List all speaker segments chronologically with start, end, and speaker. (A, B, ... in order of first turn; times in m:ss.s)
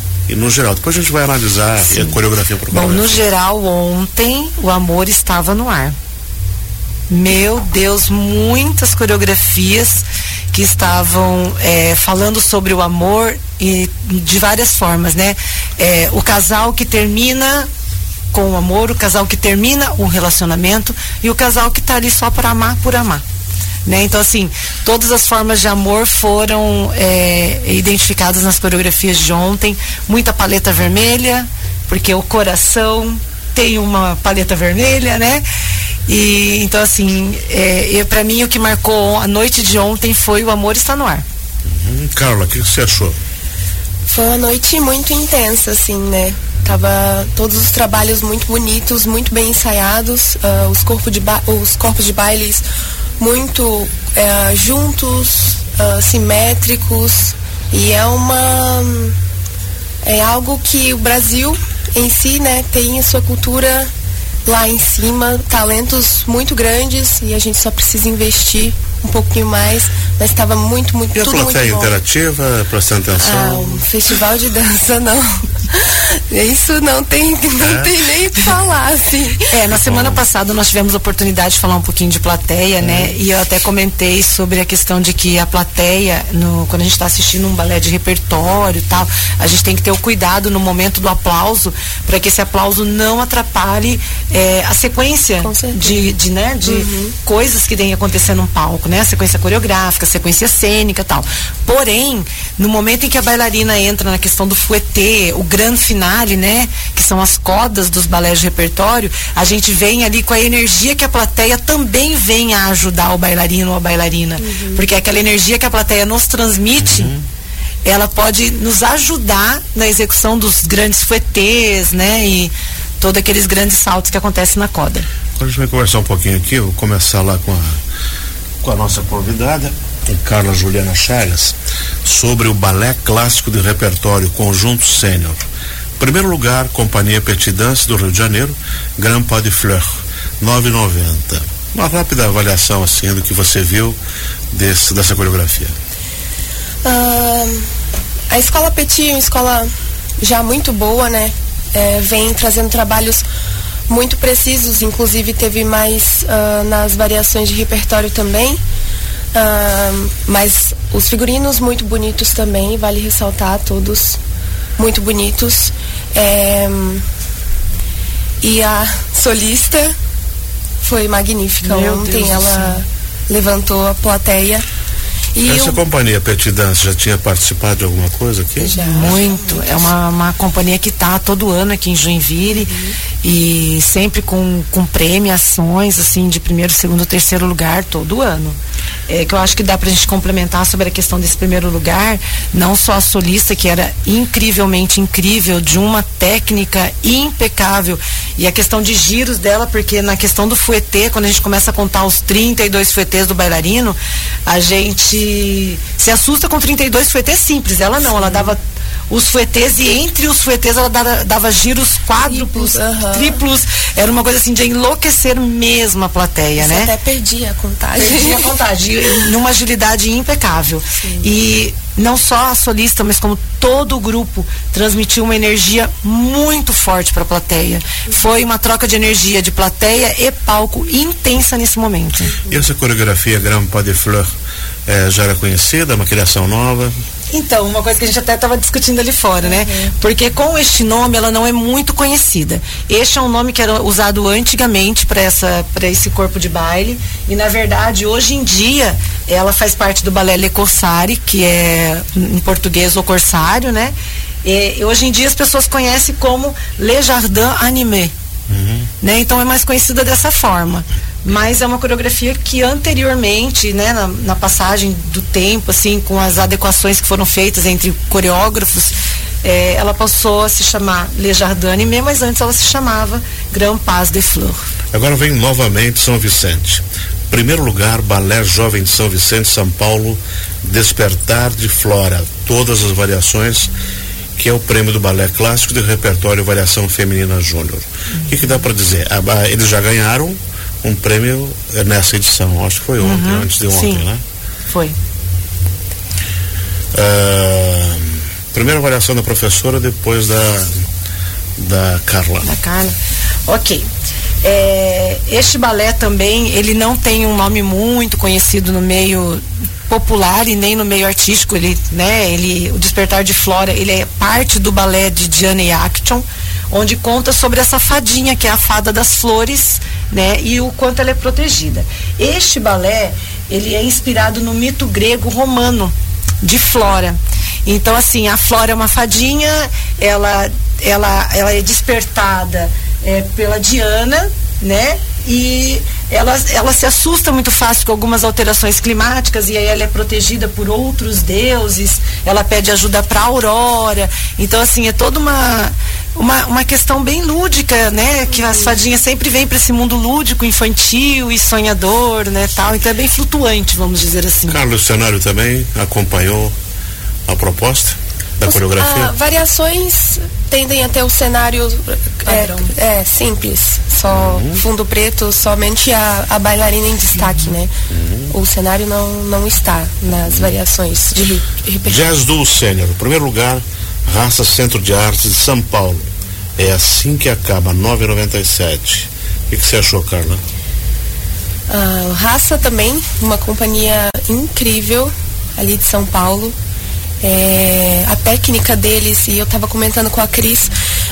0:00.3-0:03.2 A
0:02.7-0:06.0 B
0:07.1-0:17.7 B
0:18.3-0:23.2 B
0:23.8-0:35.4 B
0:36.1-0:41.2 B
0:41.7-0:43.2 A
0:44.1-0:52.6 C
0:53.2-0:59.1 C
1:00.0-1:03.9 C
1:04.4-1:11.9 C
1:11.1-1:13.9 A
1:13.1-1:19.5 C
1:17.6-1:17.9 A
1:19.5-1:57.1 B
1:19.7-1:20.2 A
1:22.8-1:23.2 A
1:35.4-1:36.1 C
1:36.6-1:37.1 C
1:54.4-1:54.8 C
1:56.8-1:57.2 A
1:57.8-2:05.1 B
2:05.4-2:07.8 A
2:08.6-2:15.4 A
2:16.0-2:24.0 A
2:24.5-2:25.7 A
2:26.8-2:27.6 C
2:28.3-2:29.7 C
2:30.2-2:33.2 C
2:33.9-2:38.6 C
2:39.3-2:44.2 C
2:44.8-2:47.0 C
2:48.4-2:49.9 C
2:50.8-2:54.6 C
2:51.6-2:52.8 B
2:55.3-2:55.8 C
2:55.4-2:59.1 A
2:58.6-2:59.8 C
2:58.7-3:08.6 B
3:09.1-3:28.6 B
3:28.2-3:28.5 C
3:29.1-3:36.9 B
3:32.2-3:33.4 C
3:36.6-3:38.6 C
3:38.0-3:52.3 B
3:41.0-3:41.3 C
3:52.3-3:54.3 A
3:54.9-3:57.0 A
3:57.3-4:18.1 B
3:59.4-3:59.9 C
4:18.5-4:18.9 A
4:19.0-4:34.6 B
4:34.9-4:43.7 A
4:44.4-4:54.2 A
4:53.0-4:54.0 B
4:54.7-4:54.9 B
4:56.9-5:00.7 A
5:01.6-5:02.5 A
5:02.4-5:03.0 B
5:03.5-5:03.9 B
5:04.4-5:54.6 B
5:54.5-5:56.5 A
5:57.3-5:59.1 A
5:58.4-6:07.7 C
6:02.2-6:02.7 B
6:04.1-6:04.6 A
6:07.9-6:08.3 A
6:08.3-6:12.0 C
6:11.8-6:16.0 A
6:16.6-6:20.4 A
6:21.7-6:26.5 C
6:27.2-6:30.7 C